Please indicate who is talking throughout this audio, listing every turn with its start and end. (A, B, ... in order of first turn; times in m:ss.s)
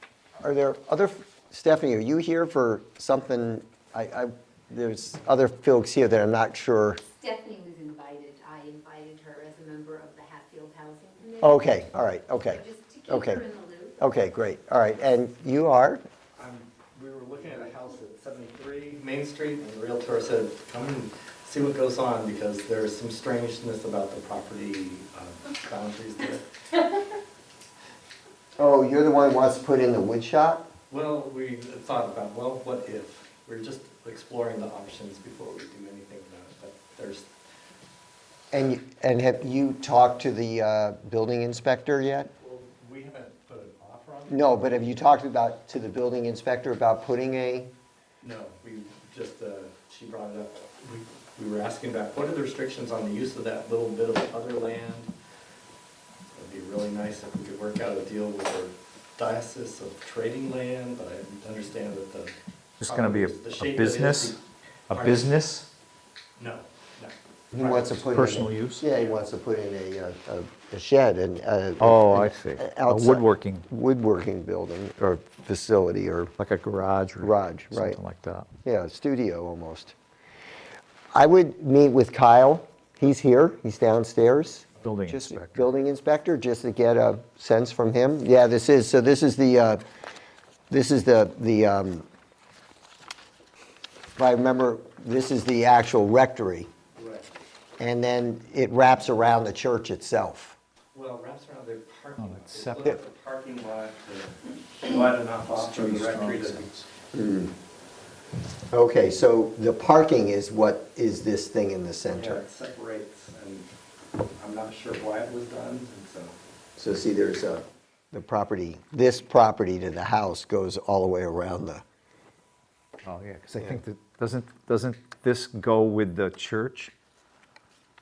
0:00.4-0:07.0 A
0:07.2-0:11.7 B
0:11.4-0:13.4 A
0:12.5-0:14.0 B
0:14.0-0:16.0 A
0:16.4-0:26.4 C
0:28.6-0:30.6 A
0:30.9-0:37.3 C
0:38.5-0:42.3 A
0:42.4-0:44.5 C
0:44.3-0:47.7 A
0:48.2-0:55.1 C
0:56.3-1:05.4 C
1:02.8-1:04.4 D
1:04.9-1:05.6 D
1:06.4-1:08.1 C
1:07.5-1:16.3 A
1:08.1-1:08.8 D
1:11.8-1:13.7 D
1:16.4-1:18.5 D
1:17.2-1:18.0 A
1:18.6-1:19.9 A
1:21.1-1:29.8 A
1:24.8-1:25.7 D
1:30.7-1:32.1 A
1:34.2-1:36.7 A
1:37.0-1:37.3 C
1:37.8-1:40.6 A
1:40.9-1:46.8 C
1:42.2-1:42.8 D
1:45.5-1:46.8 D
1:47.1-1:47.5 A
1:48.7-1:52.4 A
1:52.1-1:53.7 C
1:54.4-1:56.4 C
1:56.8-2:01.8 A
2:03.0-2:06.9 D